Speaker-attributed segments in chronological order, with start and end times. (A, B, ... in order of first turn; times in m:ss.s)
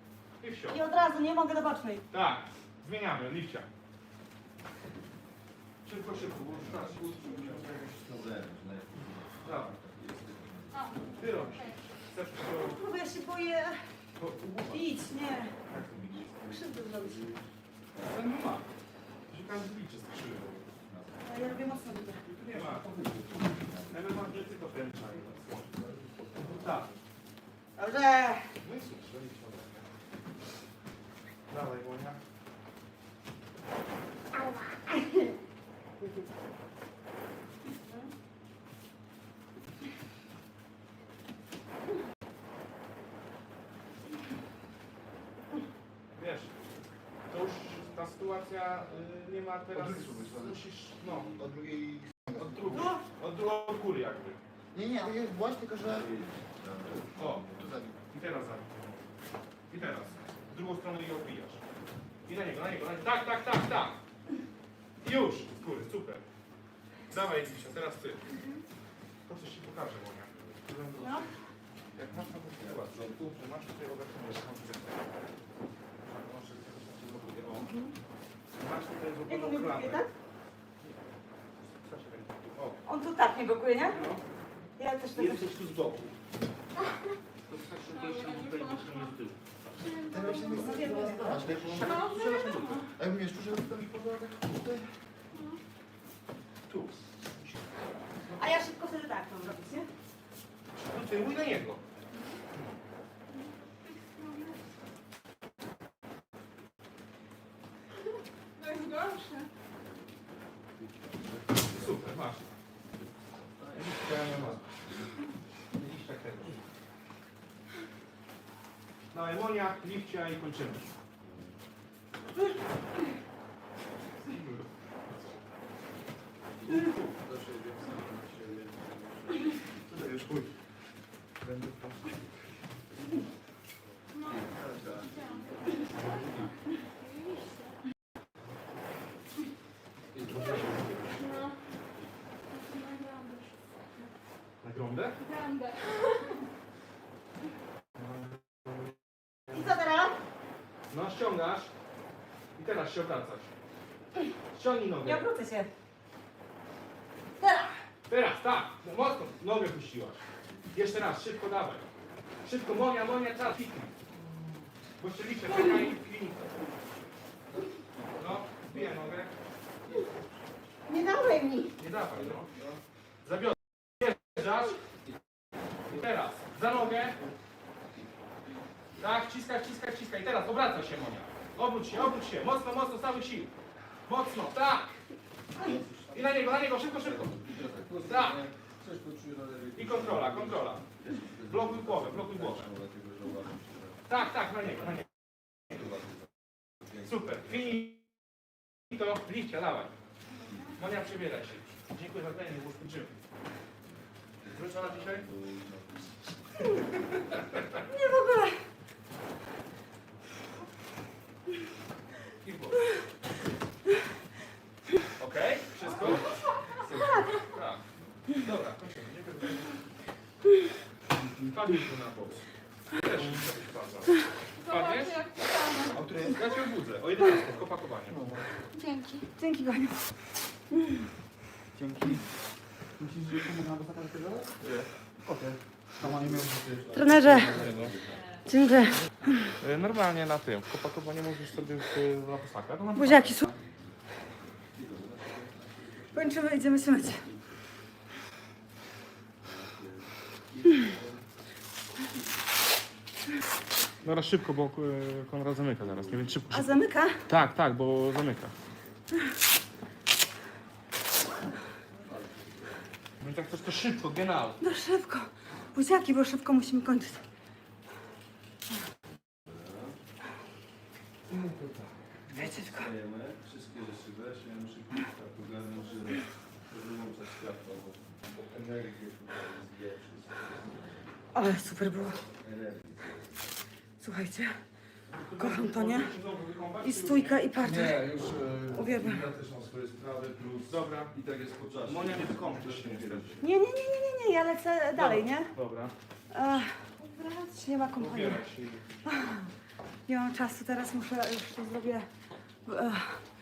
0:00.4-0:00.8 A
0:00.7-0:02.0 B
0:02.1-0:03.7 A
0:05.8-0:07.7 A
0:06.4-0:11.4 C
0:09.4-0:09.7 A
0:10.7-0:11.8 D
0:11.2-0:12.8 A
0:12.5-0:13.8 B
0:14.2-0:15.1 A
0:14.6-0:15.6 B
0:15.6-0:16.3 A
0:15.7-0:17.4 C
0:16.4-0:17.3 B
0:18.0-0:18.7 A
0:19.3-0:20.7 A
0:20.8-0:21.3 C
0:21.2-0:22.2 B
0:22.2-0:23.1 A
0:22.8-0:24.1 C
0:23.8-0:25.6 A
0:25.2-0:27.0 C
0:26.3-0:26.9 A
0:27.8-0:28.5 B
0:28.6-0:29.9 A
0:31.5-0:32.2 A
0:34.3-0:35.4 B
0:37.8-0:38.1 B
0:46.2-0:46.5 A
0:47.3-0:51.4 A
0:49.7-0:50.6 E
0:51.2-0:52.9 E
0:52.3-0:54.4 A
0:52.7-0:53.0 B
0:54.7-0:56.1 E
0:55.8-0:57.6 C
0:57.2-0:57.5 A
0:57.5-0:58.0 E
0:58.1-0:59.0 A
0:59.7-1:01.6 A
1:02.3-1:04.0 A
1:05.0-1:06.2 A
1:07.1-1:08.2 A
1:09.3-1:11.3 A
1:11.0-1:11.3 B
1:12.0-1:15.2 A
1:12.6-1:13.2 C
1:16.0-1:17.7 A
1:17.6-1:17.9 B
1:18.6-1:20.0 A
1:19.3-1:20.1 B
1:21.8-1:22.8 A
1:22.8-1:24.0 B
1:23.9-1:24.2 A
1:24.8-1:25.5 B
1:25.2-1:26.1 A
1:27.5-1:29.4 A
1:27.9-1:29.2 D
1:29.8-1:31.1 D
1:30.1-1:32.0 E
1:30.2-1:31.4 B
1:31.3-1:32.9 A
1:31.7-1:32.8 D
1:33.0-1:35.0 E
1:35.3-1:35.6 D
1:36.7-1:38.6 A
1:38.4-1:39.9 B
1:40.8-1:41.8 A
1:42.5-1:42.8 A
1:43.3-1:44.6 D
1:48.6-1:49.5 D
1:50.6-1:52.1 C
1:51.6-1:52.5 A
1:53.0-1:55.1 C
1:53.7-1:54.7 A
1:55.7-1:56.6 A
1:59.1-2:00.9 A
2:01.2-2:01.5 C
2:04.3-2:04.6 A
2:06.6-2:09.7 C
2:09.9-2:10.6 E
2:11.4-2:12.0 E
2:14.1-2:14.4 D
2:14.2-2:16.4 C
2:15.0-2:16.0 D
2:16.8-2:17.8 D
2:20.2-2:21.1 C
2:20.3-2:21.2 A
2:21.1-2:21.6 D
2:22.5-2:24.1 D
2:24.6-2:25.2 A
2:25.2-2:26.4 D
2:28.0-2:29.0 A
2:29.5-2:30.2 B
2:30.9-2:31.7 A
2:32.6-2:33.5 A
2:34.5-2:35.3 A
2:35.0-2:35.7 B
2:37.4-2:37.8 B
2:38.1-2:40.2 A
2:40.7-2:41.8 A
2:42.4-2:44.0 A
2:45.0-2:46.7 A
2:48.2-2:49.3 A
2:50.9-2:51.7 B
2:51.8-2:52.5 A
2:52.0-2:52.7 C
2:53.2-2:54.8 A
2:55.9-2:57.2 A
2:59.0-3:03.5 A
3:04.0-3:04.9 A
3:05.6-3:06.2 C
3:06.1-3:08.4 A
3:07.1-3:14.0 C
3:09.8-3:10.8 A
3:11.5-3:12.7 A
3:14.1-3:15.0 A
3:17.0-3:18.0 A
3:18.9-3:19.9 A
3:20.8-3:23.1 A
3:24.4-3:26.2 C
3:24.5-3:25.3 A
3:27.9-3:28.6 B
3:32.4-3:32.9 A
3:35.2-3:39.8 A
3:36.2-3:36.5 D
3:37.0-3:37.3 B
3:41.2-3:45.2 A
3:44.6-3:46.0 D
3:45.9-3:46.4 E
3:46.3-3:48.3 A
3:48.1-3:48.5 E
3:48.8-3:50.0 B
3:51.7-3:52.3 E
3:53.0-3:54.6 E
3:55.2-3:57.6 E
3:56.0-3:58.2 C
3:57.0-3:57.6 B
3:57.3-3:58.0 A
3:58.5-3:59.5 B
3:59.6-4:03.6 A
4:03.0-4:03.5 B
4:04.7-4:06.5 C
4:06.1-4:07.2 B
4:09.4-4:11.2 C
4:14.0-4:16.7 A
4:16.5-4:17.3 B
4:17.3-4:18.5 A
4:22.0-4:22.9 C
4:23.2-4:24.6 A
4:24.6-4:27.2 B
4:29.5-4:30.0 C
4:31.3-4:32.4 A
4:32.3-4:32.9 B
4:32.6-4:41.0 C
4:41.3-4:42.2 B
4:42.4-4:43.3 C
4:44.0-4:44.6 B
4:45.1-4:47.4 A
4:45.4-4:46.1 B
4:46.8-4:48.0 B
4:47.6-4:53.4 C
4:48.7-4:49.2 B
4:50.6-4:51.1 A
4:51.8-4:53.4 A
4:53.4-4:55.5 B
4:55.0-4:55.9 A
4:56.3-4:58.4 B
4:58.0-4:58.8 A
4:59.0-4:59.5 B
5:00.1-5:02.1 B
5:02.7-5:03.2 B